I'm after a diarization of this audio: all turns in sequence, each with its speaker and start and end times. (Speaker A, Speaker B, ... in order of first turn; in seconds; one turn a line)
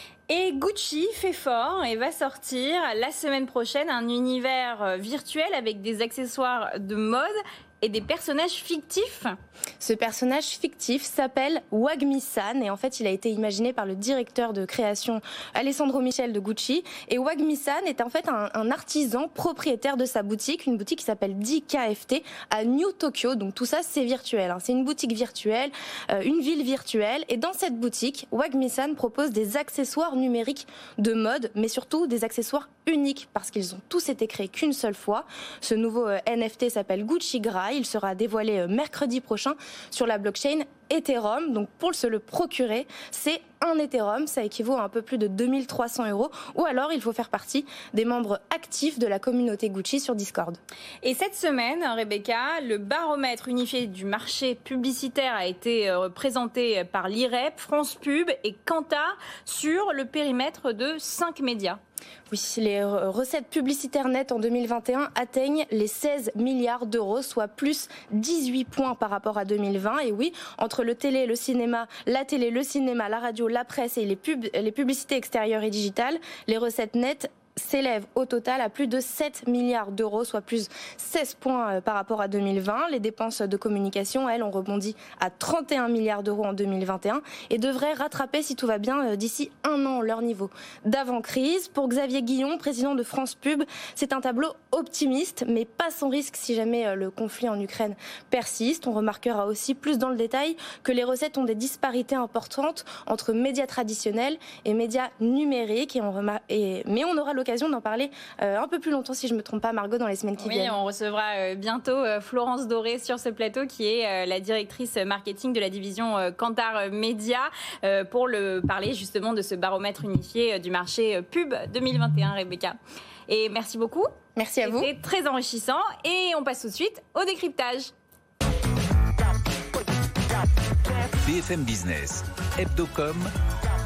Speaker A: 0.3-9.4
Speaker B: 9.8-50.6
Speaker A: 51.0-61.8
Speaker B: 62.3-110.8
Speaker A: 110.4-122.8
Speaker A: 123.3-127.9
Speaker B: 124.4-124.9
Speaker C: 131.1-133.3